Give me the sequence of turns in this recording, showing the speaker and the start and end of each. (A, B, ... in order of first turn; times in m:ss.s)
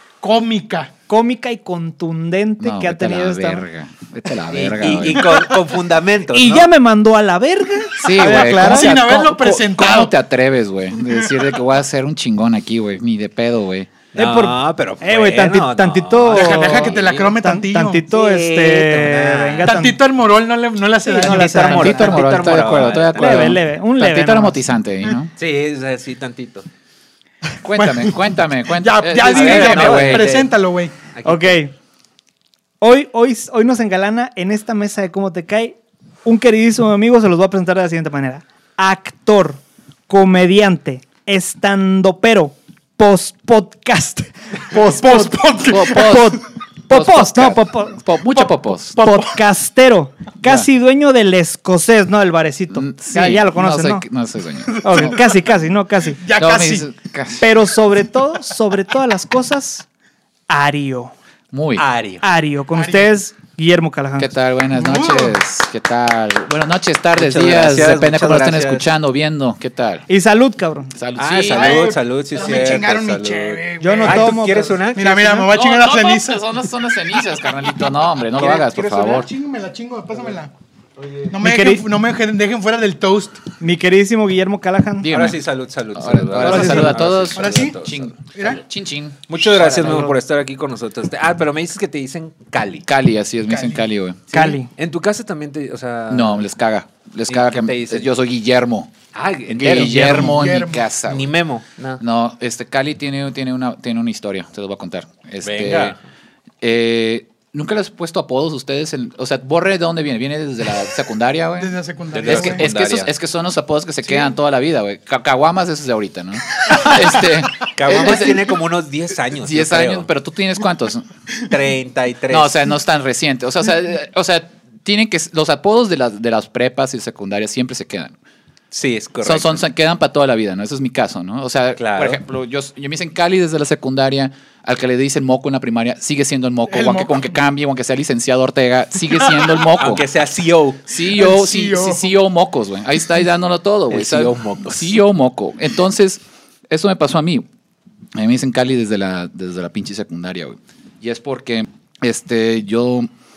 0:00.2-0:00.9 A
0:01.1-0:03.6 B
0:02.6-0:05.3 C
0:04.5-0:06.7 D
0:06.3-0:09.4 B
0:08.0-0:13.9 C
0:08.2-0:10.1 A
0:14.2-0:17.3 D
0:14.2-0:20.0 B
0:16.3-0:18.0 A
0:18.1-0:19.7 D
0:19.6-0:21.9 A
0:21.1-0:22.5 B
0:21.2-0:23.6 D
0:21.8-0:25.3 C
0:23.1-0:24.6 B
0:25.4-0:26.7 D
0:27.6-0:30.3 C
0:28.8-0:30.9 A
0:29.2-0:30.5 D
0:31.1-0:31.6 D
0:31.2-0:31.7 B
0:32.8-0:54.0 B
0:44.7-0:46.2 A
0:45.7-0:46.4 C
0:46.9-0:49.0 C
0:52.7-0:55.3 C
0:54.8-0:56.2 B
0:56.2-0:56.9 A
0:56.3-0:57.5 C
0:57.4-0:59.9 B
1:00.5-1:01.1 B
1:01.5-1:01.8 C
1:01.8-1:02.2 D
1:02.2-1:04.3 B
1:02.8-1:03.1 A
1:04.2-1:10.1 C
1:04.7-1:05.4 A
1:07.2-1:08.9 D
1:10.1-1:10.9 B
1:11.0-1:11.9 C
1:11.2-1:15.2 D
1:11.5-1:16.4 A
1:13.8-1:15.5 B
1:15.5-1:19.3 C
1:18.4-1:20.5 A
1:21.0-1:21.3 D
1:21.3-1:23.4 A
1:21.4-1:21.9 B
1:23.6-1:25.1 B
1:25.0-1:25.4 C
1:25.1-1:28.1 D
1:25.9-1:29.2 C
1:26.4-1:27.0 B
1:26.6-1:27.8 A
1:28.3-1:28.6 A
1:29.3-1:32.9 D
1:29.6-1:30.2 B
1:32.8-1:34.5 C
1:33.4-1:33.9 A
1:34.3-1:34.7 B
1:34.8-1:36.5 D
1:36.1-1:38.9 C
1:37.3-1:38.1 D
1:39.1-1:40.5 D
1:39.5-1:41.3 C
1:39.8-1:40.9 A
1:41.1-1:42.0 D
1:42.0-1:46.0 C
1:45.4-1:46.0 D
1:46.6-1:58.5 C
1:51.6-1:52.7 A
1:52.1-1:53.1 D
1:57.7-2:00.1 D
1:59.4-2:01.1 C
2:01.5-2:02.5 D
2:02.3-2:08.2 C
2:08.7-2:09.6 D
2:09.2-2:20.0 C
2:11.8-2:12.2 D
2:16.7-2:17.1 A
2:19.4-2:20.8 D
2:20.9-2:27.5 C
2:21.1-2:22.1 A
2:23.9-2:24.9 D
2:28.1-2:33.1 C